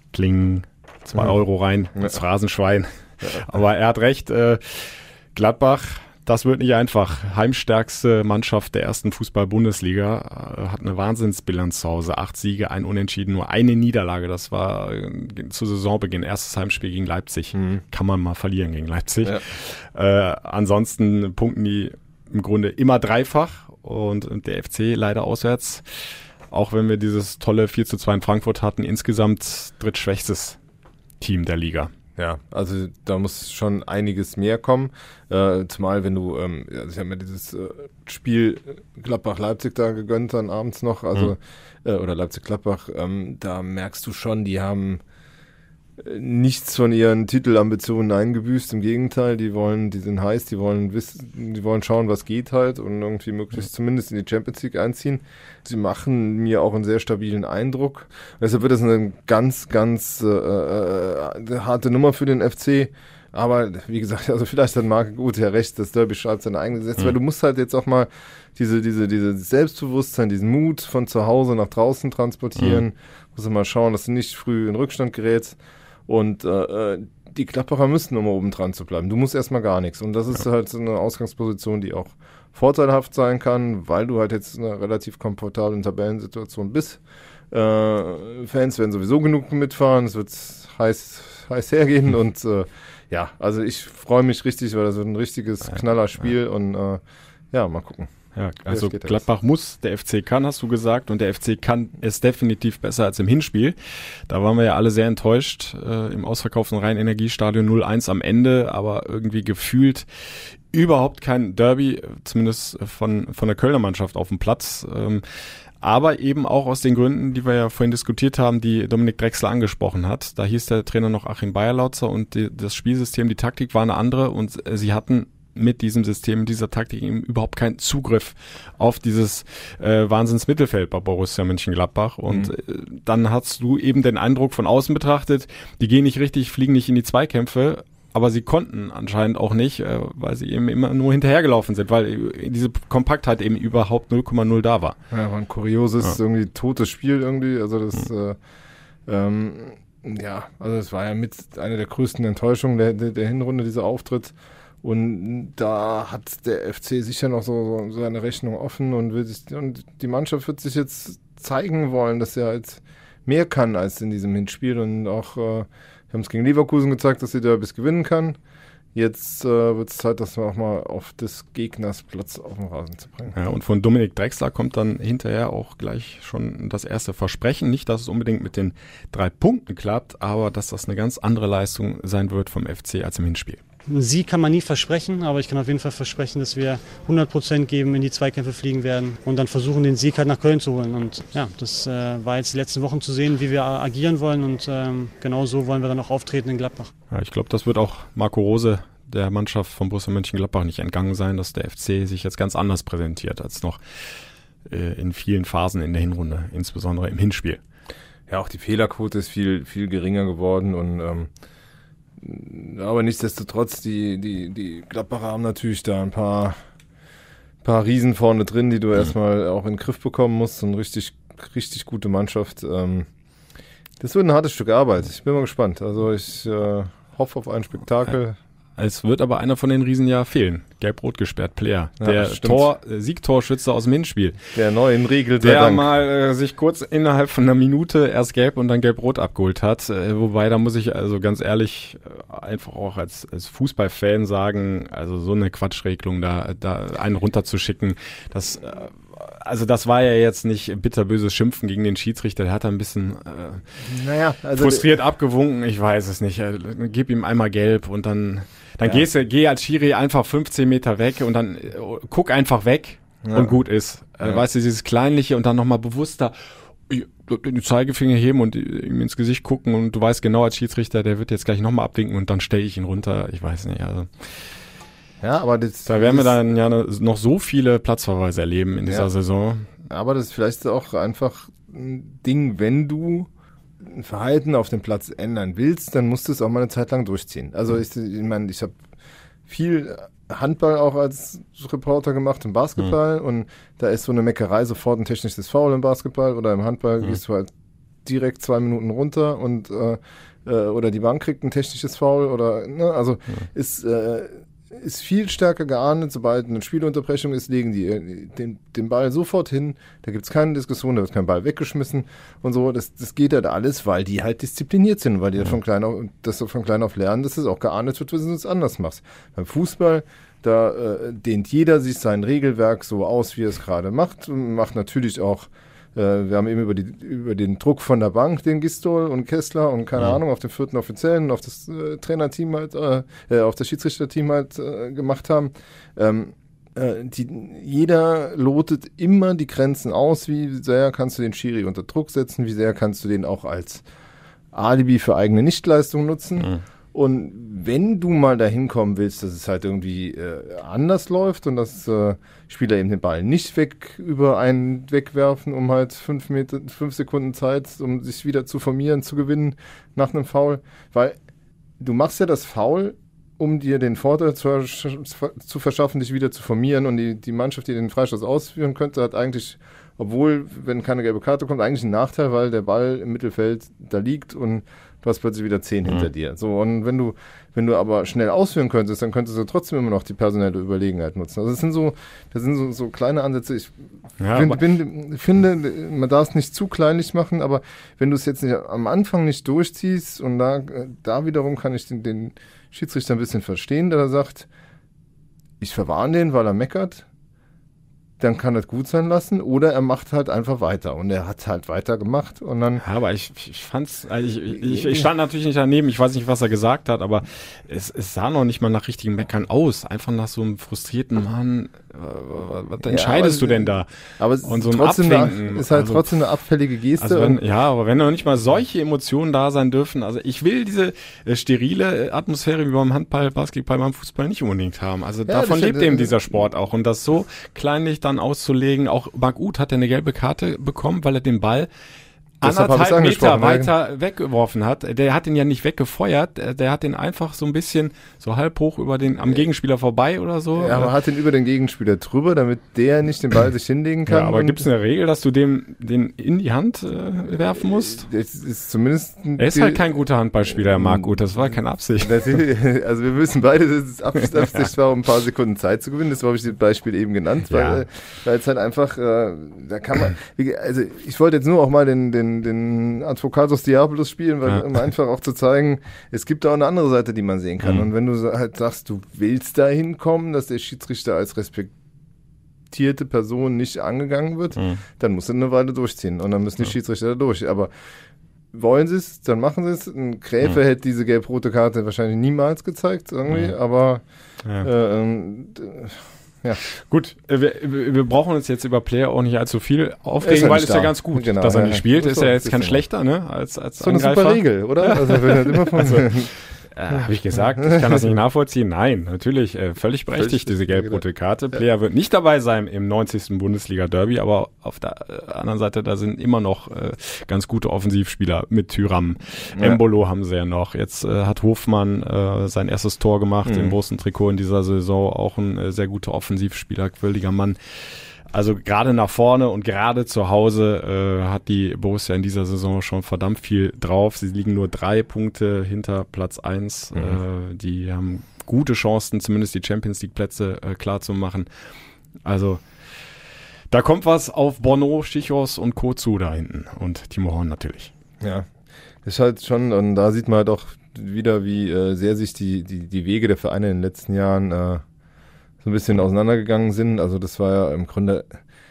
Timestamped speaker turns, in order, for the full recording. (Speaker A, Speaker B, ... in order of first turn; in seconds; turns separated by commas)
Speaker A: 0.1-30.6, Speaker B: 17.5-17.8, Speaker A: 31.2-31.9, Speaker B: 32.2-45.0, Speaker B: 46.0-87.0, Speaker B: 87.5-98.1, Speaker A: 98.3-103.8, Speaker B: 98.7-99.2, Speaker A: 104.3-110.1, Speaker A: 110.7-115.2, Speaker A: 115.8-145.0, Speaker B: 145.1-148.4, Speaker B: 149.1-168.4, Speaker B: 168.9-173.3, Speaker A: 173.3-183.6, Speaker C: 183.9-196.9, Speaker A: 197.1-203.8, Speaker A: 204.7-207.6, Speaker B: 208.3-211.3, Speaker B: 212.2-216.6, Speaker B: 217.6-223.1, Speaker B: 224.0-228.4, Speaker A: 228.8-234.4, Speaker B: 232.0-232.7, Speaker B: 234.6-235.9, Speaker A: 235.4-253.6, Speaker B: 253.8-254.9, Speaker A: 254.6-266.4, Speaker B: 263.2-263.6, Speaker A: 266.9-274.2, Speaker B: 275.2-276.4, Speaker A: 275.9-279.7, Speaker B: 279.9-283.3, Speaker B: 283.8-288.8, Speaker B: 289.5-297.5, Speaker B: 298.1-343.8, Speaker B: 344.5-361.2, Speaker B: 361.8-383.7, Speaker A: 384.2-384.6, Speaker B: 384.3-394.5, Speaker B: 395.6-397.1, Speaker B: 398.2-402.8, Speaker A: 402.8-413.9, Speaker B: 404.6-405.1, Speaker B: 412.9-417.4, Speaker A: 414.4-416.1, Speaker A: 417.0-431.7, Speaker B: 425.3-426.4, Speaker B: 432.4-433.7, Speaker A: 432.4-440.9, Speaker B: 440.6-444.7, Speaker A: 444.1-448.1, Speaker B: 447.8-449.9, Speaker A: 449.4-452.3, Speaker B: 450.7-451.1, Speaker B: 452.0-471.7, Speaker A: 457.5-457.8, Speaker B: 472.7-477.7, Speaker A: 474.6-474.8, Speaker B: 478.5-484.0, Speaker A: 483.3-483.5, Speaker B: 484.6-486.6, Speaker A: 486.9-531.5, Speaker B: 490.2-492.8, Speaker B: 493.8-496.3, Speaker B: 500.1-501.0, Speaker B: 509.6-509.8, Speaker B: 513.5-513.8, Speaker A: 532.2-532.6, Speaker A: 533.7-537.9, Speaker B: 538.2-538.5, Speaker B: 539.0-544.8, Speaker B: 545.6-548.4